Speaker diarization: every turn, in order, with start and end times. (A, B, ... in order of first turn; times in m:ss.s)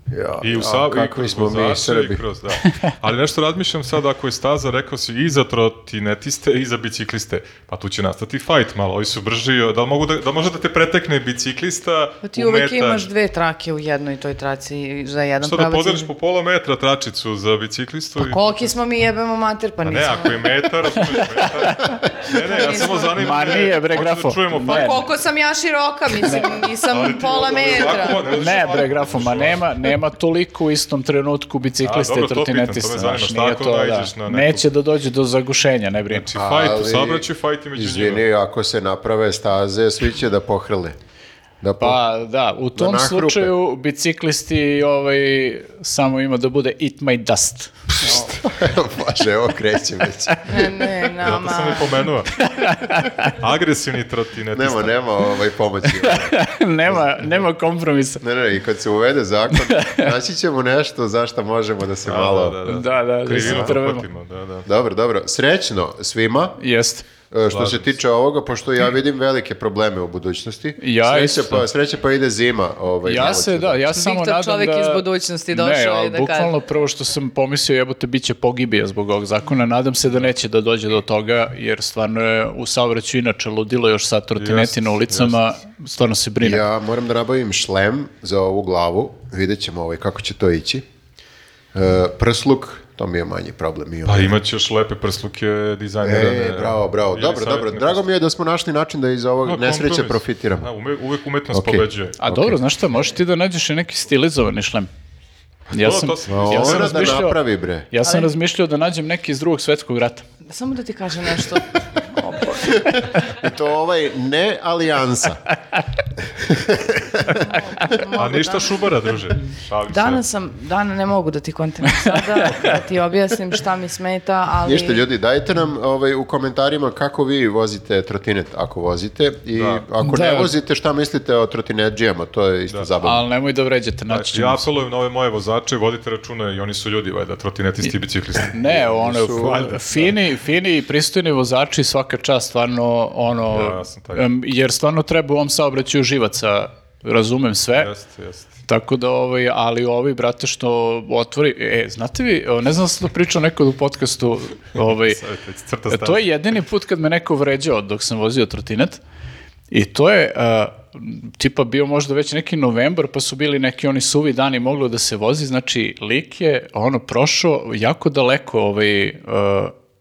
0:00.1-0:02.2 A
0:00.4-0:13.1 B
0:02.6-0:02.9 C
0:12.2-0:16.1 D
0:15.4-0:18.7 B
0:18.2-0:20.4 D
0:19.8-0:25.1 B
0:21.2-0:22.0 C
0:22.3-0:23.5 D
0:22.9-0:25.0 C
0:24.6-0:28.2 D
0:26.2-0:26.5 C
0:26.8-0:29.6 B
0:28.3-0:36.2 C
0:31.8-0:34.6 B
0:36.1-0:38.2 B
0:36.3-0:41.0 A
0:41.6-0:42.0 A
0:41.8-0:48.3 C
0:42.7-0:43.5 A
0:47.9-0:50.9 A
0:50.4-0:52.1 D
0:51.2-0:52.3 B
0:52.4-0:53.4 C
0:53.2-0:55.0 B
0:54.5-0:57.3 A
0:55.8-0:58.2 C
0:58.2-1:02.6 A
0:59.6-1:00.1 C
1:02.0-1:04.6 B
1:02.7-1:04.0 C
1:03.4-1:03.8 A
1:04.6-1:06.6 A
1:06.6-1:07.1 C
1:07.3-1:13.8 A
1:07.5-1:07.9 B
1:10.8-1:11.7 C
1:13.0-1:26.6 C
1:13.9-1:16.6 D
1:24.4-1:25.4 B
1:26.4-1:30.8 A
1:31.7-1:34.3 A
1:34.0-1:38.1 B
1:36.0-1:40.7 A
1:39.4-1:42.2 B
1:41.5-1:42.6 A
1:42.2-1:44.9 C
1:45.7-1:47.2 B
1:45.7-1:50.2 C
1:46.3-1:47.9 A
1:50.5-1:53.1 D
1:52.6-1:55.4 A
1:56.2-1:57.4 A
1:57.3-1:58.9 D
1:58.1-2:00.2 B
1:59.9-2:05.0 D
2:02.0-2:02.8 C
2:04.6-2:13.2 A
2:09.5-2:09.8 B
2:10.0-2:10.5 C
2:13.0-2:14.7 C
2:14.1-2:18.6 B
2:18.5-2:27.9 C
2:18.6-2:19.7 A
2:19.3-2:20.2 B
2:23.5-2:24.2 B
2:27.8-2:28.5 B
2:28.6-2:35.2 C
2:34.9-2:36.2 B
2:35.9-2:39.0 C
2:39.7-2:49.7 C